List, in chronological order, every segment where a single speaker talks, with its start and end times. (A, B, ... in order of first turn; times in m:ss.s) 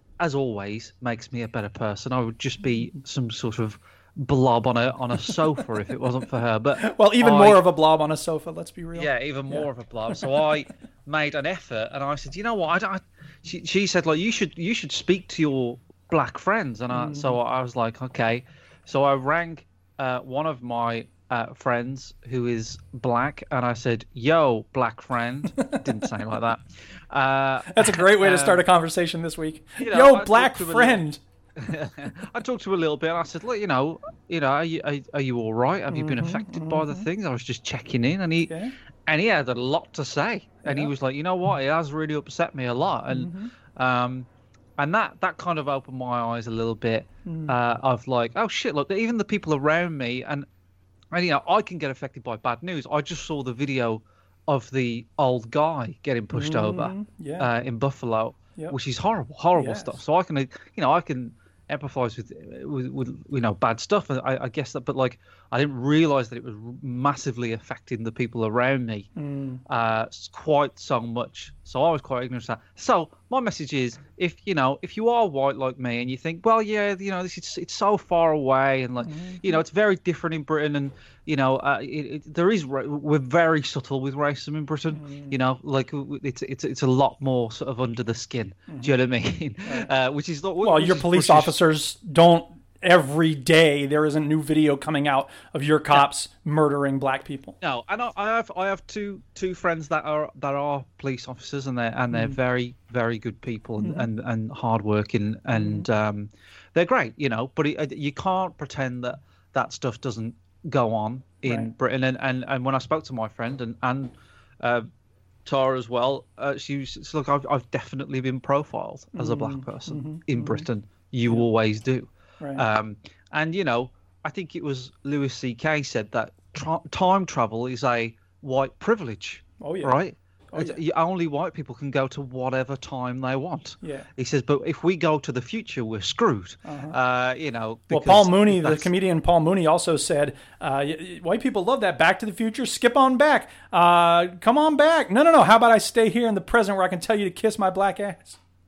0:00.2-0:07.6 A
0:06.8-0:10.2 B
0:08.9-0:28.6 A
0:16.9-0:17.4 B
0:25.6-0:25.8 B
0:27.7-0:31.2 B
0:29.8-0:31.0 A
0:31.6-0:38.5 A
0:35.9-0:37.1 B
0:38.5-0:38.7 B
0:39.1-0:50.4 A
0:40.6-0:40.9 B
0:43.1-0:43.5 B
0:47.2-0:47.5 B
0:51.1-1:09.1 A
0:56.3-0:57.5 B
0:59.5-1:00.0 B
1:09.2-1:09.6 B
1:09.7-1:31.6 A
1:19.0-1:19.6 B
1:24.9-1:25.4 B
1:30.6-1:37.6 B
1:37.6-1:54.9 A
1:42.1-1:42.4 B
1:43.8-1:44.1 B
1:45.5-1:45.9 B
1:51.4-1:51.7 B
1:55.4-2:18.9 A
1:59.1-2:00.7 B
2:09.6-2:10.0 B
2:10.5-2:10.8 B
2:13.8-2:14.1 B
2:16.6-2:17.0 B
2:17.9-2:28.4 B